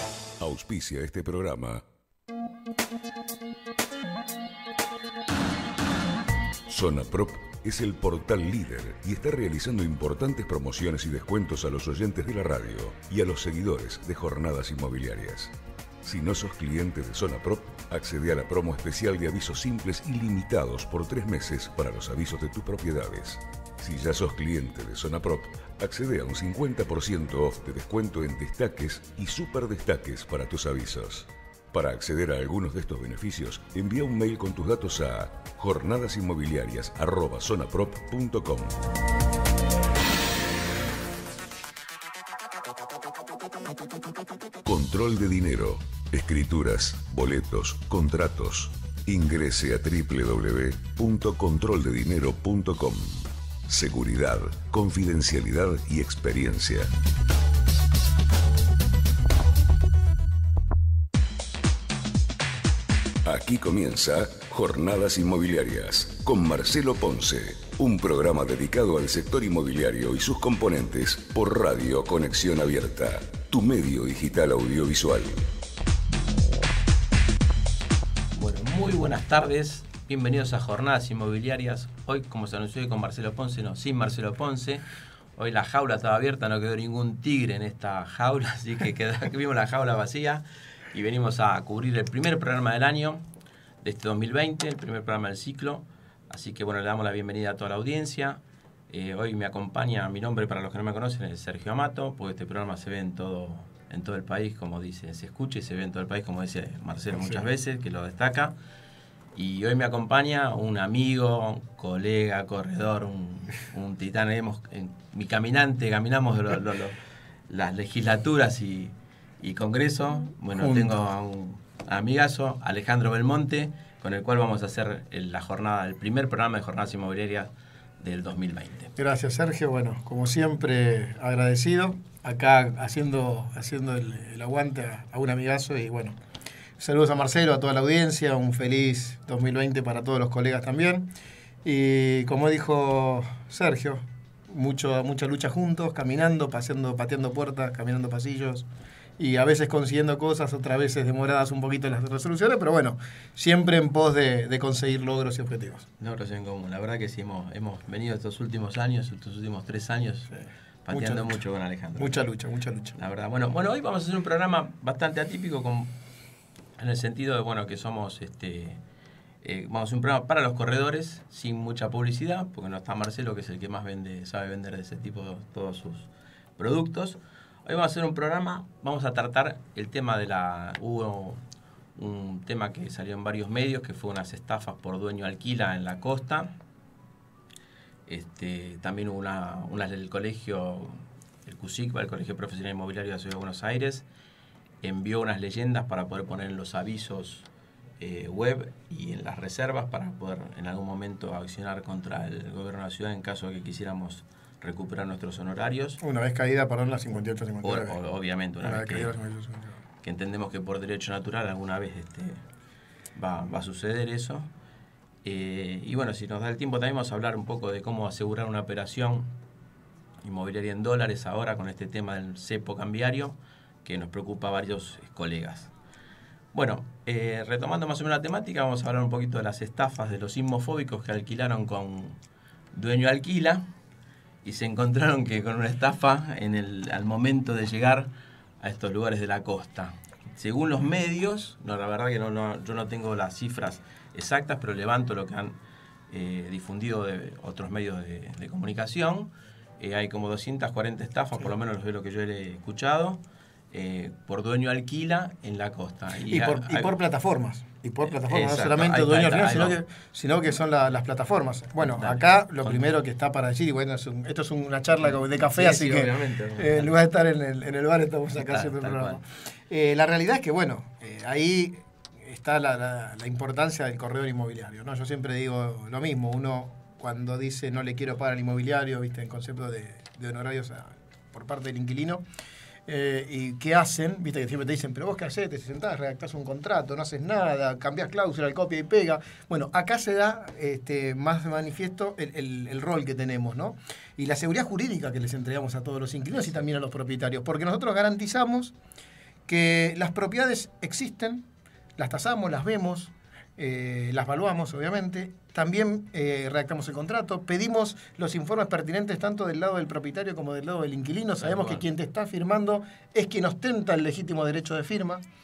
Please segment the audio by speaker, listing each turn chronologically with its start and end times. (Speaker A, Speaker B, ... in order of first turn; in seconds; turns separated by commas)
Speaker A: 0.4-1.8, Speaker A: 6.7-38.8, Speaker A: 44.6-56.9, Speaker A: 63.2-75.5, Speaker B: 78.3-93.2, Speaker B: 93.8-108.5, Speaker C: 107.1-107.4, Speaker B: 109.3-117.0, Speaker B: 117.5-128.9, Speaker C: 120.5-120.9, Speaker C: 129.0-136.2, Speaker C: 136.8-141.1, Speaker C: 141.6-148.7, Speaker C: 149.2-155.9, Speaker B: 156.0-162.2, Speaker C: 160.9-161.4, Speaker C: 162.0-163.0, Speaker B: 162.9-165.9, Speaker B: 166.8-168.8, Speaker B: 169.4-181.4, Speaker B: 182.0-186.6, Speaker B: 188.1-194.1, Speaker B: 194.8-197.5, Speaker B: 198.0-206.0, Speaker C: 206.0-208.0, Speaker B: 207.6-209.1, Speaker C: 208.6-209.8, Speaker B: 210.0-212.4, Speaker B: 213.2-214.5, Speaker B: 215.2-219.3, Speaker B: 220.2-225.7, Speaker B: 226.5-232.2, Speaker B: 232.7-233.7, Speaker B: 234.4-245.6, Speaker B: 246.1-256.9, Speaker C: 256.3-282.2, Speaker B: 258.0-259.8, Speaker B: 261.8-262.9, Speaker B: 265.0-266.9, Speaker B: 268.3-269.2, Speaker C: 282.9-298.7, Speaker C: 299.5-301.5, Speaker C: 302.0-315.2, Speaker B: 311.4-311.8